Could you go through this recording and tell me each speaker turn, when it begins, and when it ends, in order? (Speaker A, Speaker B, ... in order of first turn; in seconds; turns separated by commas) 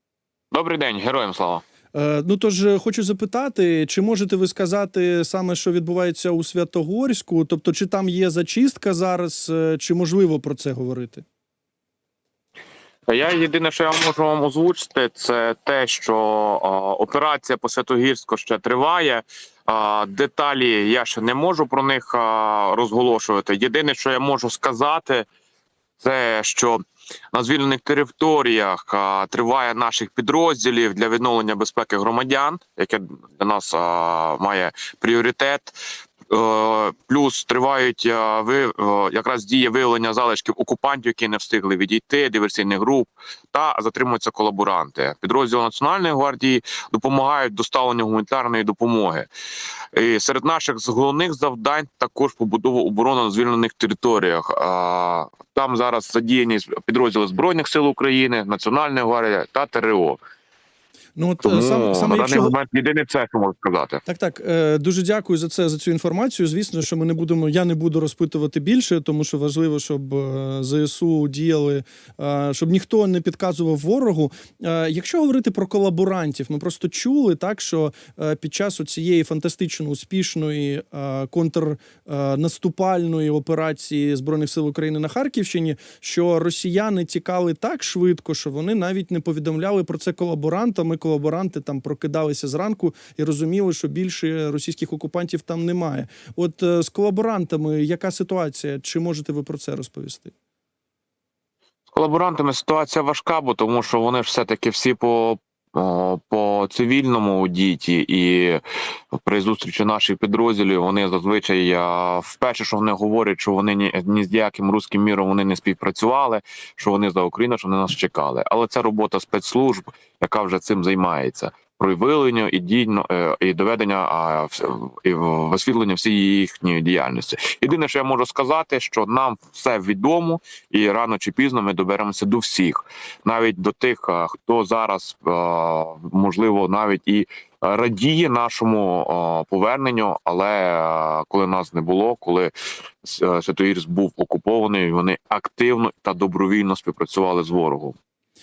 Speaker A: 0.5-1.6, Speaker B: 1.9-11.2, Speaker A: 13.1-25.3, Speaker A: 26.0-26.8, Speaker A: 27.3-35.8, Speaker A: 36.3-49.3, Speaker A: 49.9-60.2, Speaker B: 61.2-62.5, Speaker A: 61.4-64.0, Speaker B: 64.1-100.3, Speaker A: 101.9-108.6, Speaker A: 109.1-148.0